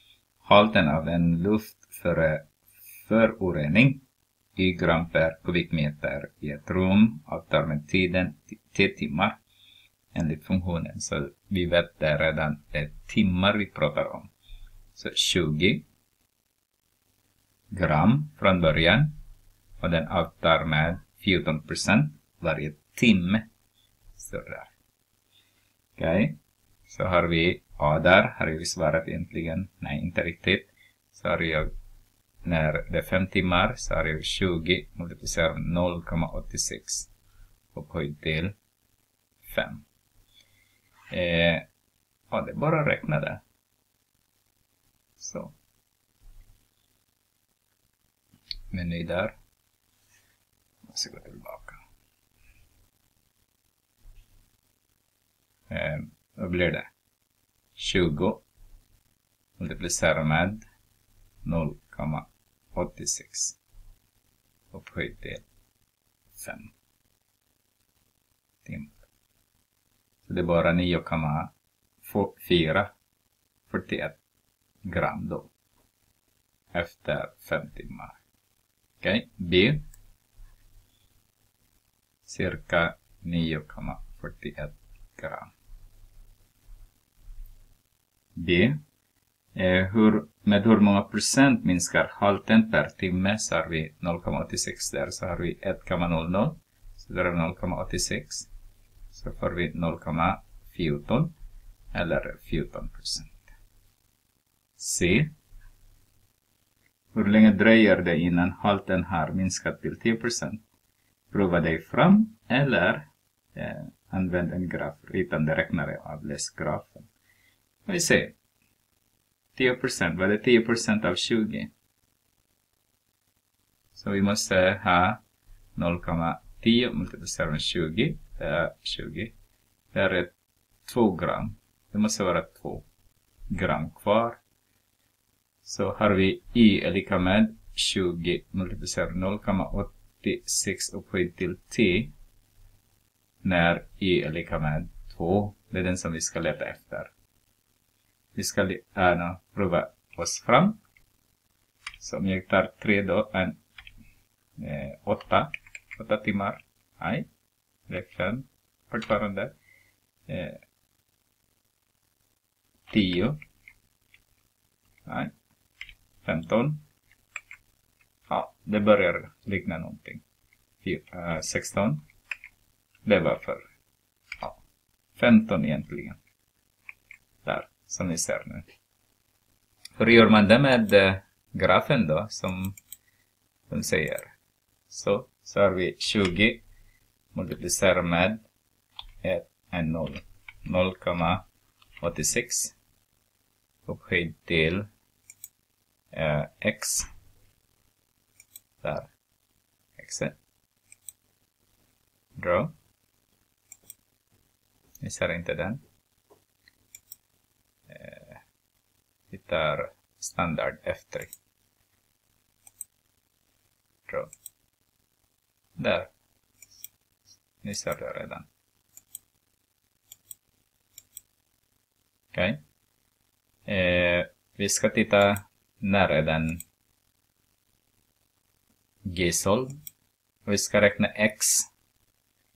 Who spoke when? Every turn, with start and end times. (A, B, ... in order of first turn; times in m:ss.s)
0:00.4-0:02.5 A
0:03.1-0:04.0 A
0:04.6-0:09.4 A
0:10.1-0:14.3 A
0:15.0-0:15.9 A
0:17.7-0:19.2 A
0:19.8-0:23.5 A
0:24.2-0:24.7 A
0:26.0-0:26.4 A
0:26.9-0:31.7 A
0:32.4-0:37.1 A
0:37.7-0:38.6 A
0:39.5-0:39.8 A
0:41.1-0:41.7 A
0:42.3-0:43.4 A
0:45.2-0:45.6 A
0:48.7-0:49.4 A
0:50.9-0:51.8 A
0:55.7-0:56.9 A
0:57.8-0:58.4 A
0:59.6-1:00.6 A
1:01.4-1:03.6 A
1:04.7-1:05.4 A
1:06.4-1:06.7 A
1:08.6-1:09.0 A
1:10.3-1:11.5 A
1:12.0-1:12.9 A
1:13.7-1:14.2 A
1:14.9-1:15.5 A
1:16.7-1:18.2 A
1:19.0-1:19.8 A
1:22.3-1:25.5 A
1:28.4-1:28.8 A
1:29.6-1:38.5 A
1:39.1-1:41.4 A
1:41.9-1:43.4 A
1:44.8-1:45.3 A
1:47.1-1:50.6 A
1:51.3-1:57.1 A
1:57.9-1:58.4 A
1:59.6-2:01.7 A
2:04.0-2:05.2 A
2:05.8-2:09.3 A
2:09.9-2:12.9 A
2:13.5-2:14.4 A
2:15.6-2:22.1 A
2:23.4-2:27.1 A
2:28.4-2:30.8 A
2:32.0-2:33.6 A
2:34.6-2:37.3 A
2:37.9-2:39.6 A
2:40.3-2:40.6 A
2:42.9-2:43.4 A
2:45.1-2:45.3 A
2:46.2-2:46.8 A
2:48.3-2:50.2 A
2:50.8-2:52.0 A
2:53.0-2:53.6 A
2:55.2-2:56.2 A
2:57.4-2:58.7 A
3:00.0-3:02.8 A
3:03.7-3:04.3 A
3:04.9-3:06.6 A
3:07.3-3:08.4 A
3:09.2-3:11.4 A
3:12.0-3:12.8 A
3:13.9-3:14.9 A
3:16.1-3:17.1 A
3:18.8-3:19.1 A
3:20.0-3:20.4 A
3:22.4-3:22.7 A
3:25.0-3:25.8 A
3:27.9-3:28.4 A
3:29.3-3:31.3 A
3:35.8-3:36.1 A
3:37.6-3:38.5 A
3:42.3-3:42.6 A
3:43.7-3:46.6 A
3:49.1-3:49.8 A
3:50.5-3:51.7 A